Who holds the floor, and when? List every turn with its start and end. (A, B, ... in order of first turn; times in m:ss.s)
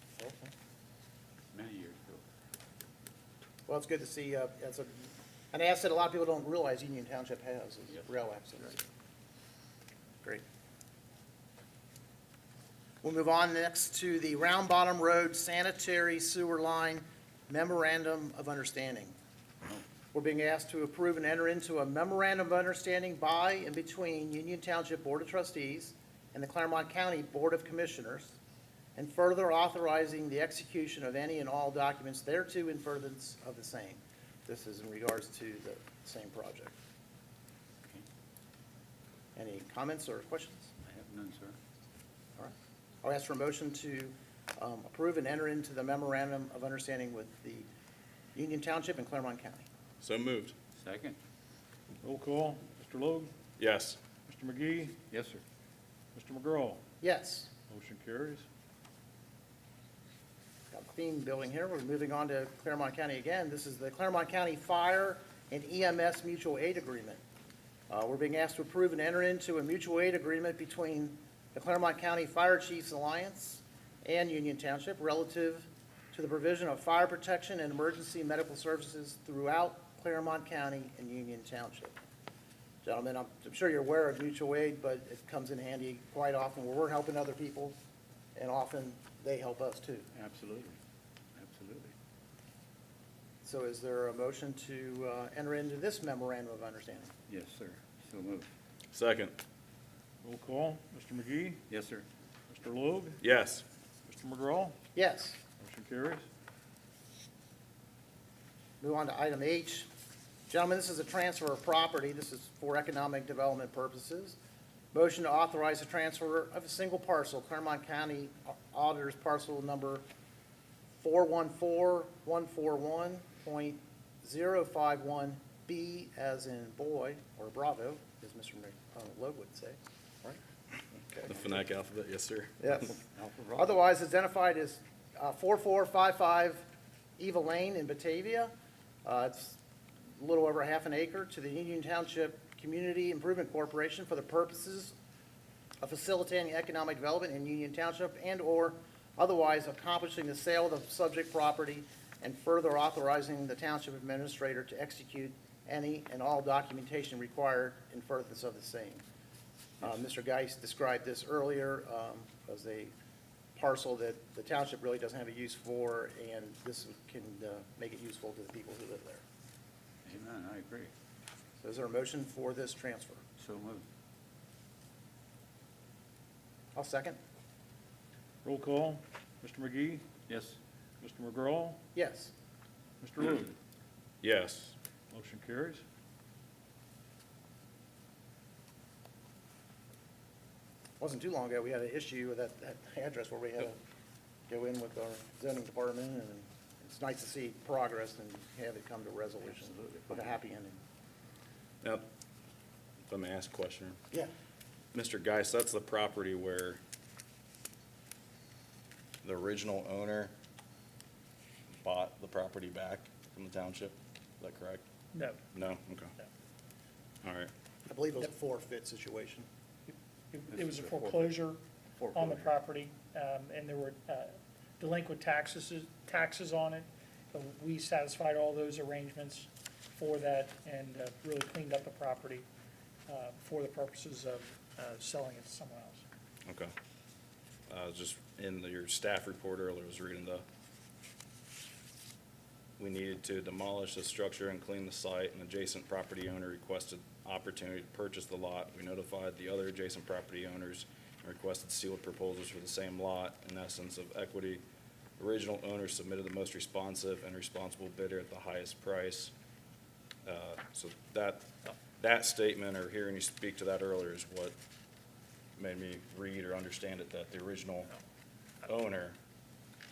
0:00.2-0:00.5 A
0:01.5-0:02.2 B
0:03.7-0:08.8 A
0:07.9-0:08.8 B
0:13.0-0:19.1 A
0:20.1-0:28.4 A
0:28.9-0:36.7 A
0:39.3-0:40.7 A
0:40.8-0:41.6 B
0:42.4-0:47.7 A
0:48.3-0:49.6 A
0:50.0-0:50.5 C
0:50.8-0:51.2 B
0:52.0-0:53.3 D
0:53.6-0:54.0 C
0:54.2-0:55.0 D
0:55.1-0:55.4 B
0:56.1-0:56.8 D
0:57.0-0:57.5 A
0:57.7-0:58.4 D
1:00.7-1:07.2 A
1:07.9-1:21.9 A
1:22.8-1:27.8 A
1:28.3-1:30.0 A
1:30.1-1:30.8 B
1:31.4-1:31.9 B
1:33.4-1:37.1 A
1:37.3-1:38.5 B
1:38.9-1:39.4 C
1:40.2-1:41.6 D
1:41.7-1:42.0 B
1:42.5-1:43.2 D
1:43.2-1:43.6 C
1:44.1-1:44.8 D
1:44.9-1:45.4 A
1:45.6-1:46.2 D
1:48.8-1:49.9 A
1:50.5-1:54.4 A
1:54.9-2:00.0 A
2:01.0-2:10.4 A
2:10.9-2:11.4 A
2:11.3-2:12.9 C
2:12.6-2:16.7 A
2:17.2-2:18.5 A
2:19.0-2:19.6 A
2:20.2-2:24.9 A
2:25.8-2:39.0 A
2:39.8-2:42.9 A
2:43.6-2:49.2 A
2:50.0-2:50.9 B
2:51.6-2:53.2 A
2:53.4-2:53.8 B
2:56.7-2:57.2 A
2:58.4-3:00.1 D
3:00.3-3:00.6 B
3:01.0-3:01.8 D
3:01.9-3:02.3 A
3:03.0-3:03.5 D
3:04.2-3:04.8 C
3:05.1-3:05.8 D
3:11.0-3:13.8 A
3:14.5-3:20.8 A
3:19.4-3:20.4 B
3:23.1-3:24.0 C
3:24.9-3:26.8 C
3:29.2-3:30.3 C
3:31.8-3:34.8 C
3:35.1-3:35.4 E
3:35.5-3:36.1 C
3:37.2-3:37.5 C
3:37.9-3:39.5 A
3:39.9-3:41.6 E
3:40.5-3:41.2 B
3:42.0-3:42.5 B
3:42.1-3:52.4 E
3:53.1-3:56.0 E
3:56.5-3:56.7 C
3:57.7-4:00.4 C
4:02.8-4:14.6 C
4:15.2-4:19.3 C
4:20.2-4:21.5 C
4:22.0-4:24.6 C
4:25.6-4:27.9 C
4:28.6-4:29.2 C